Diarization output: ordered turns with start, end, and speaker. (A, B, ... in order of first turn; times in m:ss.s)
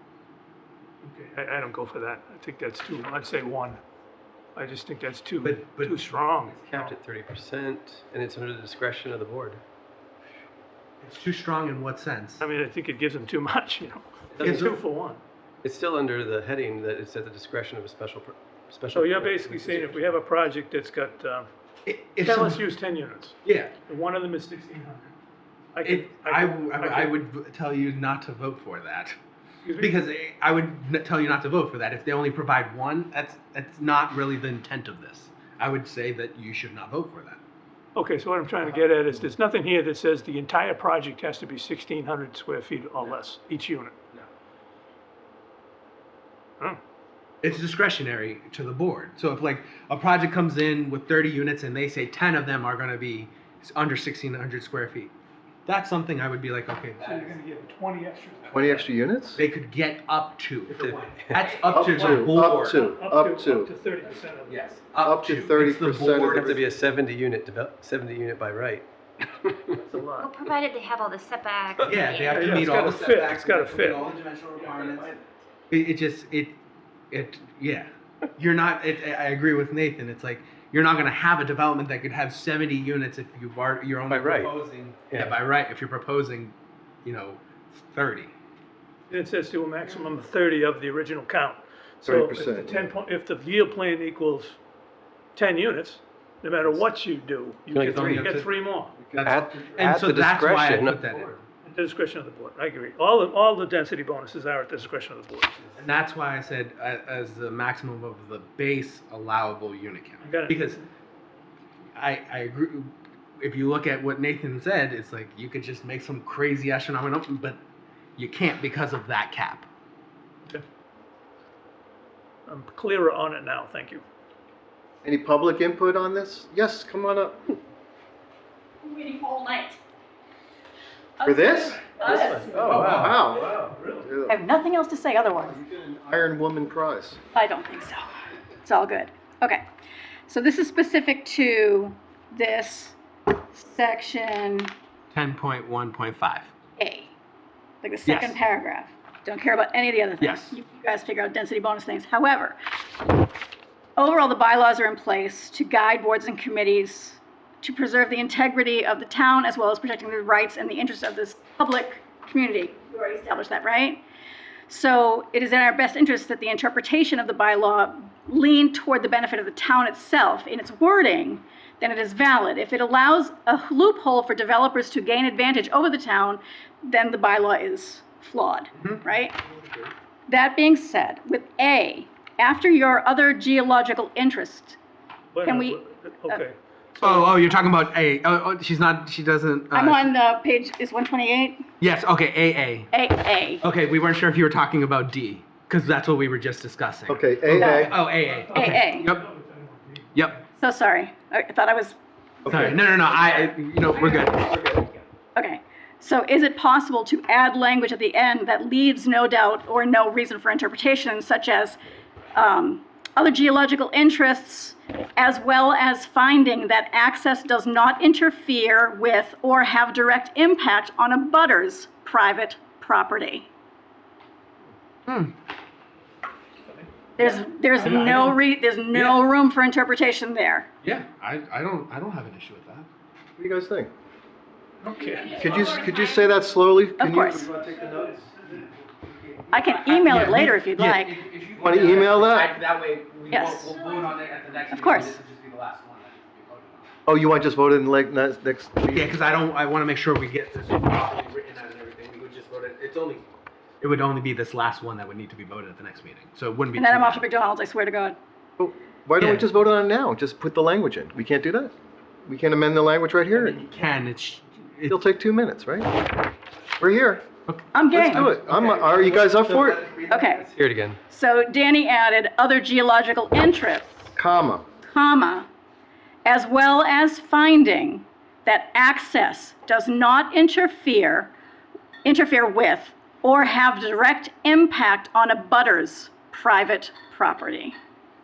0:01.0-0:03.8 A
0:04.5-0:06.8 A
0:05.4-0:06.9 B
0:06.6-0:09.6 C
0:11.0-0:12.4 B
0:12.4-0:15.2 A
0:14.3-0:14.6 C
0:14.4-0:14.7 B
0:15.6-0:20.2 C
0:18.9-0:21.5 A
0:21.8-0:22.6 B
0:22.2-0:25.1 A
0:23.4-0:23.7 B
0:25.7-0:27.1 A
0:25.8-0:29.2 B
0:29.6-0:29.9 A
0:29.8-0:37.4 B
0:38.0-0:43.9 A
0:47.4-0:55.1 B
0:55.6-0:57.4 B
0:57.0-0:58.8 A
0:58.5-0:59.4 D
0:59.4-1:02.9 B
1:00.7-1:01.4 C
1:01.7-1:03.7 D
1:01.9-1:04.6 A
1:04.5-1:06.6 B
1:05.0-1:06.6 D
1:05.8-1:08.8 C
1:09.5-1:10.3 A
1:10.2-1:12.5 E
1:11.8-1:16.6 B
1:12.2-1:14.1 A
1:17.1-1:26.5 B
1:24.1-1:24.5 C
1:25.1-1:25.4 C
1:27.0-1:28.3 B
1:29.1-1:34.6 A
1:32.0-1:32.8 D
1:35.4-1:38.9 A
1:37.7-1:38.3 C
1:37.9-1:38.5 B
1:39.0-1:39.5 D
1:39.1-1:41.4 B
1:39.2-1:41.4 C
1:41.6-1:45.7 A
1:45.8-1:50.8 B
1:50.2-1:50.8 A
1:52.0-1:57.6 B
1:58.2-1:59.7 B
2:02.5-2:04.0 A
2:05.0-2:07.4 D
2:08.8-2:09.8 F
2:11.2-2:12.5 F
2:11.2-2:11.9 D
2:12.0-2:13.7 C
2:12.3-2:14.1 A
2:12.6-2:13.2 B
2:12.8-2:14.4 D
2:14.3-2:15.6 F
2:15.4-2:17.2 D
2:17.3-2:19.6 F
2:20.3-2:23.0 F
2:23.5-2:24.7 F
2:25.1-2:26.5 B
2:26.8-2:27.1 F
2:27.8-2:32.6 F
2:28.0-2:28.4 B
2:30.2-2:30.6 B
2:34.0-2:44.0 F
2:44.7-2:59.4 F
2:58.8-2:59.0 B
3:00.3-3:04.8 F
3:05.3-3:07.8 A
3:05.4-3:06.4 F
3:07.0-3:10.1 B
3:09.7-3:11.6 F
3:11.8-3:12.9 B
3:12.9-3:13.6 F
3:13.6-3:19.2 B
3:17.1-3:18.0 D
3:17.5-3:18.0 F
3:17.9-3:20.4 A
3:18.5-3:19.0 F
3:20.6-3:22.0 F
3:22.4-3:22.9 D
3:22.5-3:24.6 B
3:23.9-3:25.0 A
3:25.3-3:31.8 F
3:32.3-3:43.5 F
3:45.1-3:45.3 B
3:47.2-3:50.7 F
3:47.8-3:48.4 B
3:48.9-3:49.2 B
3:50.8-3:52.9 B
3:53.4-3:53.9 D
3:54.8-3:55.9 A
3:55.2-3:55.8 E
3:55.4-3:58.3 D
3:57.0-3:57.5 F
3:57.5-3:59.5 A
3:59.5-4:01.2 F
3:59.6-4:07.0 B
4:01.6-4:02.5 D
4:03.3-4:03.7 F
4:04.7-4:05.2 F
4:07.0-4:09.2 D
4:08.9-4:13.2 B
4:13.8-4:17.3 B
4:16.7-4:18.2 F
4:18.6-4:21.7 D
4:19.2-4:19.4 B
4:22.2-4:23.6 D
4:23.3-4:25.0 B
4:24.9-4:25.9 D
4:26.8-4:27.2 D
4:27.5-4:30.3 B
4:27.7-4:28.3 F
4:27.9-4:29.8 D
4:30.1-4:30.5 F
4:30.4-4:31.0 C
4:31.0-4:34.1 F
4:34.1-4:34.6 D
4:34.8-4:35.5 F
4:36.2-4:41.3 F
4:42.0-4:47.7 F